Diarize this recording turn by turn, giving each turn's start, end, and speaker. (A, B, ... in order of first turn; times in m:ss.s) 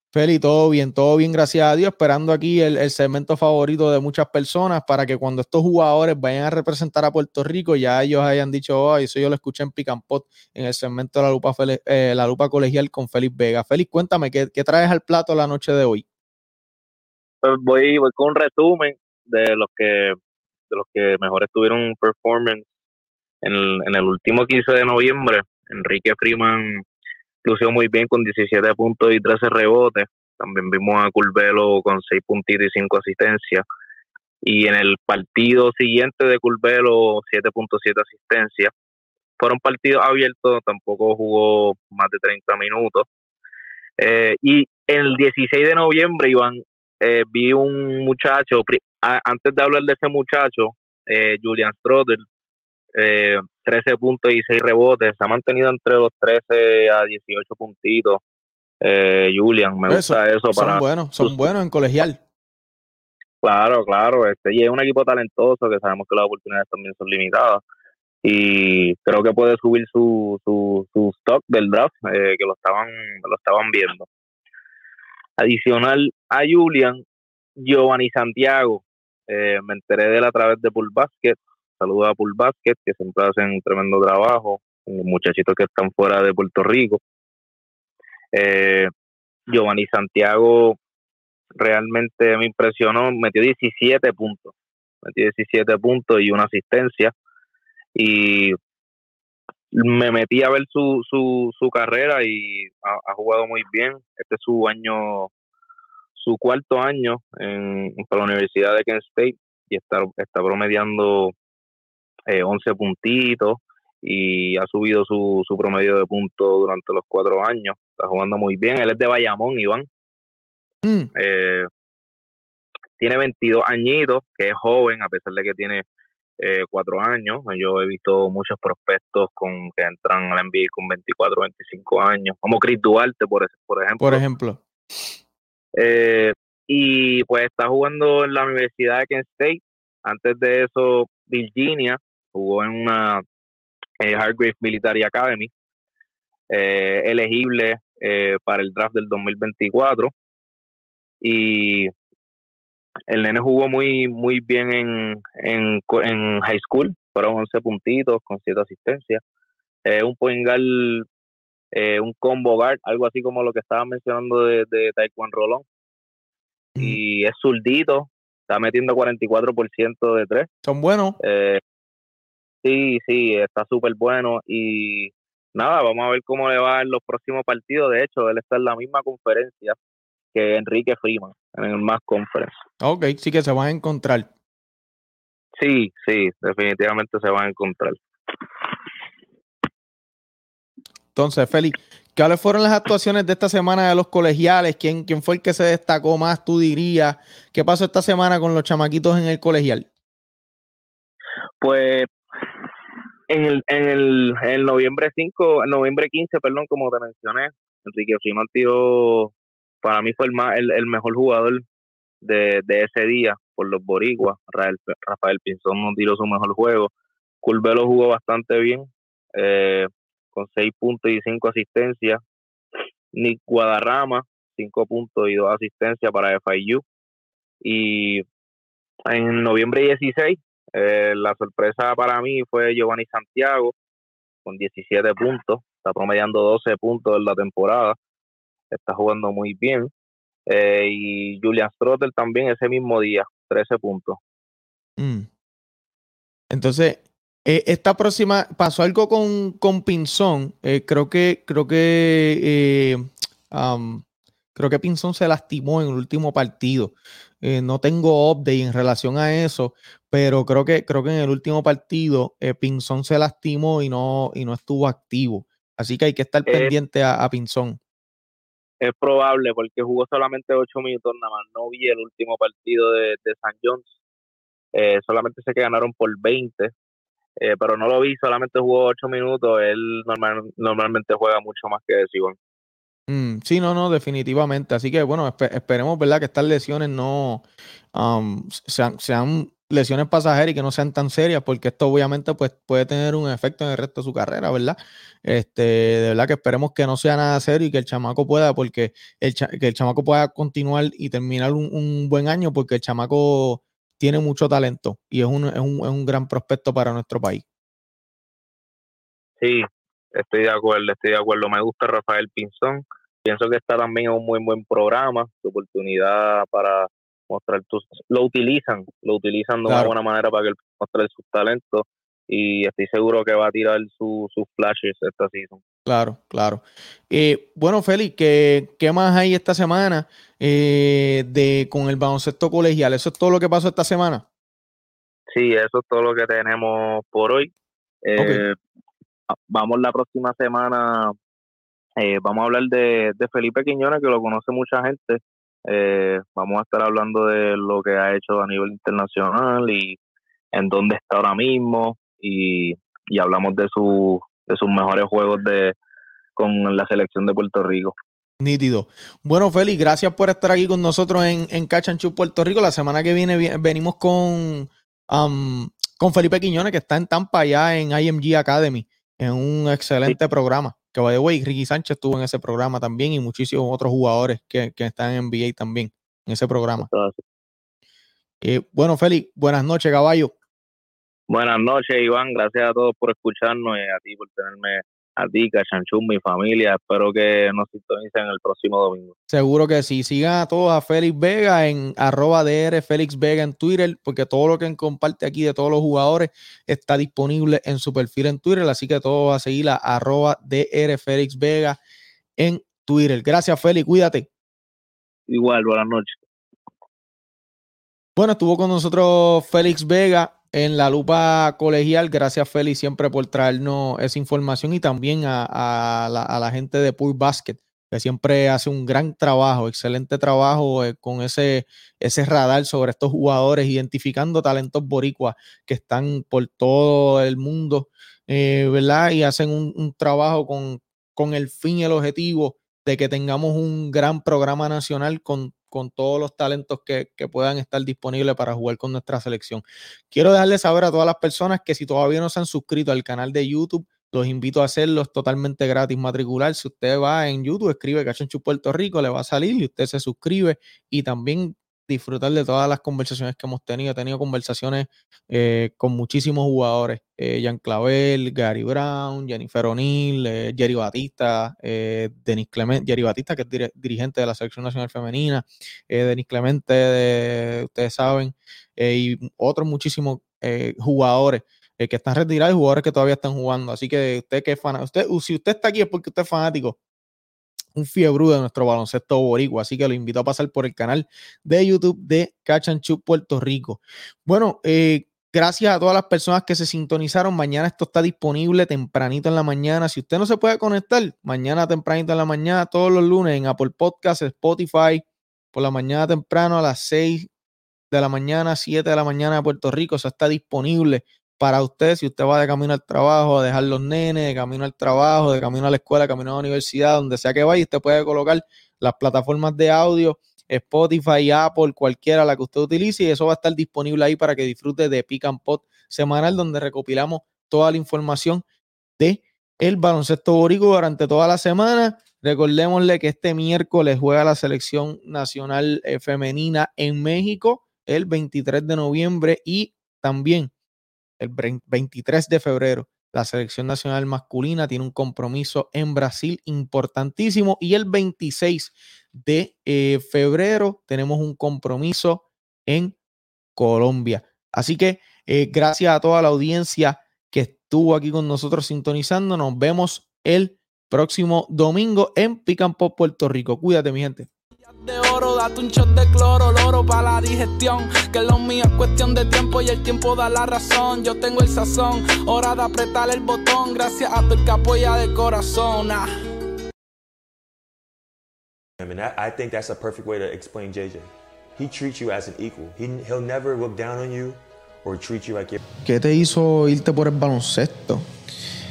0:00.1-0:16.0 A
0:17.4-0:20.2 B
0:20.7-0:22.6 B
0:23.4-0:26.8 B
0:27.4-0:33.6 B
0:34.4-0:38.7 B
0:39.4-0:43.1 B
0:44.0-0:52.2 B
0:53.0-0:58.2 B
0:58.8-1:01.4 B
0:59.9-1:02.2 A
1:03.4-1:07.6 B
1:08.2-1:14.1 B
1:15.4-1:17.0 B
1:17.6-1:27.0 B
1:28.3-1:28.9 B
1:29.5-1:30.8 B
1:31.6-1:34.5 B
1:35.0-1:37.1 B
1:38.0-1:38.6 B
1:39.7-1:45.3 B
1:46.2-1:51.3 B
1:52.3-1:59.9 B
2:00.8-2:01.1 A
2:01.2-2:01.7 B
2:03.0-2:05.8 B
2:06.4-2:14.2 B
2:14.0-2:14.6 A
2:15.8-2:23.2 B
2:24.0-2:25.5 B
2:26.5-2:30.1 B
2:31.2-2:31.9 B
2:33.1-2:39.2 B
2:39.9-2:41.1 B
2:41.7-2:45.6 B
2:46.8-2:50.5 B
2:50.6-2:51.2 A
2:51.2-2:51.6 B
2:52.6-2:59.8 B
3:00.3-3:02.5 B
3:02.8-3:04.3 A
3:05.6-3:08.0 B
3:11.2-3:19.9 A
3:21.6-3:22.1 B
3:23.3-3:29.3 B
3:29.8-3:31.6 B
3:32.2-3:36.9 B
3:37.4-3:42.2 B
3:43.1-3:46.8 B
3:47.6-3:48.2 B
3:49.1-3:53.7 B
3:54.5-3:58.0 B
3:58.7-3:59.9 B
4:00.5-4:04.2 B
4:05.0-4:05.3 A
4:06.5-4:14.0 A
4:14.6-4:27.8 A
4:26.5-4:26.7 B
4:28.8-4:33.9 B
4:34.7-4:36.7 B
4:37.4-4:42.4 B
4:43.1-5:07.4 A
5:09.4-5:25.6 B
5:19.7-5:20.0 A
5:25.9-5:34.2 A
5:35.3-5:37.5 B
5:38.1-5:38.6 B
5:38.2-5:38.4 A
5:39.3-5:41.2 B
5:42.0-5:50.0 B
5:50.5-5:55.8 B
5:56.4-5:58.0 B
5:58.4-6:16.9 A
6:16.9-6:17.2 B
6:18.4-6:20.3 A
6:21.3-6:29.1 B
6:29.3-6:41.8 A
6:42.4-6:44.3 A
6:45.3-6:46.2 B
6:48.2-7:56.8 A
7:57.8-8:15.0 A
8:15.5-8:17.3 A
8:17.9-8:38.4 A
8:39.0-8:50.5 A
8:51.2-9:03.0 A
9:03.6-9:14.3 A
9:14.6-9:26.1 C
9:28.8-9:35.6 D
9:35.8-9:38.0 A